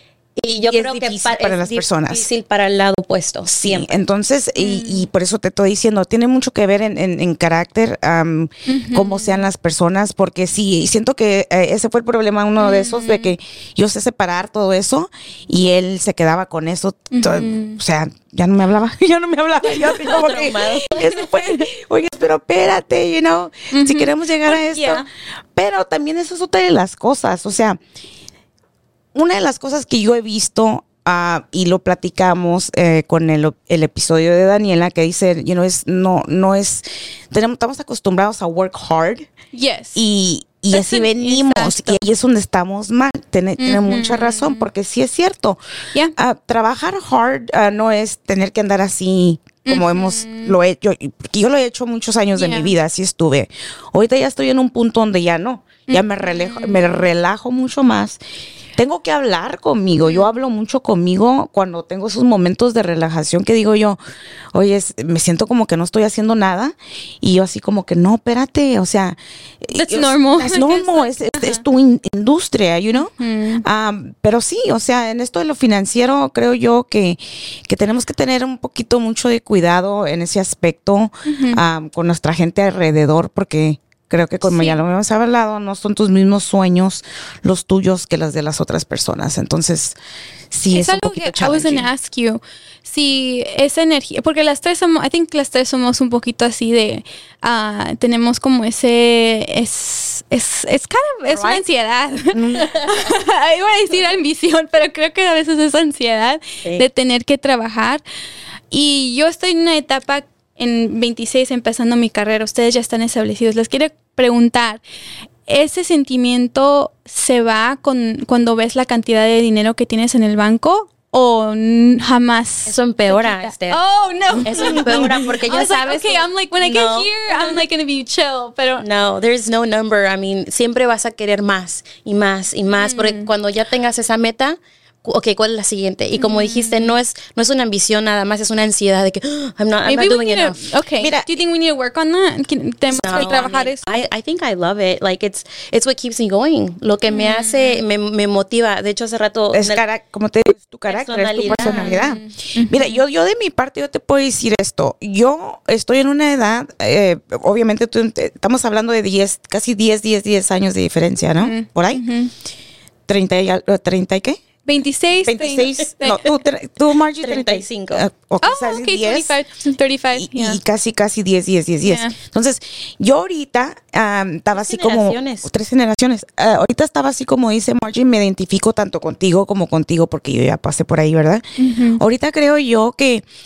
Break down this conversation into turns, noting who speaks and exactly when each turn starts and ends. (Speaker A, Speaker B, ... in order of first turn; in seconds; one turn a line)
Speaker A: 0.4-4.0
Speaker B: 0.6-2.3
Speaker B: 3.5-27.8
Speaker C: 4.6-5.1
Speaker C: 8.7-9.4
Speaker C: 12.6-13.3
Speaker C: 17.1-17.8
Speaker A: 19.7-21.1
Speaker C: 23.7-25.0
Speaker B: 29.1-39.3
Speaker C: 39.5-40.0
Speaker B: 40.0-45.6
Speaker C: 40.7-42.0
Speaker C: 43.6-44.7
Speaker B: 46.1-58.2
Speaker C: 49.7-50.5
Speaker C: 52.3-52.7
Speaker C: 55.9-56.8
Speaker B: 58.8-64.0
Speaker C: 60.0-60.3
Speaker B: 64.5-73.1
Speaker C: 69.7-71.6
Speaker C: 72.9-73.6
Speaker B: 73.6-90.0
Speaker C: 81.2-81.6
Speaker C: 84.4-84.8
Speaker B: 90.5-91.9
Speaker C: 90.7-108.0
Speaker B: 101.3-101.6
Speaker B: 102.3-103.0
Speaker C: 108.7-114.8
Speaker C: 115.5-128.8
Speaker A: 122.7-123.8
Speaker A: 124.4-127.6
Speaker A: 128.8-140.7
Speaker C: 132.8-133.3
Speaker C: 136.2-136.9
Speaker C: 139.8-143.9
Speaker B: 141.0-141.3
Speaker A: 142.9-149.8
Speaker C: 147.1-147.8
Speaker B: 149.5-162.1
Speaker A: 150.9-152.0
Speaker C: 151.5-153.0
Speaker C: 161.4-162.3
Speaker B: 163.1-164.4
Speaker C: 164.7-166.2
Speaker B: 165.2-169.3
Speaker A: 167.2-168.0
Speaker C: 168.4-170.6
Speaker B: 170.1-181.4
Speaker C: 171.8-172.1
Speaker A: 174.5-175.5
Speaker C: 181.6-182.0
Speaker B: 182.0-183.2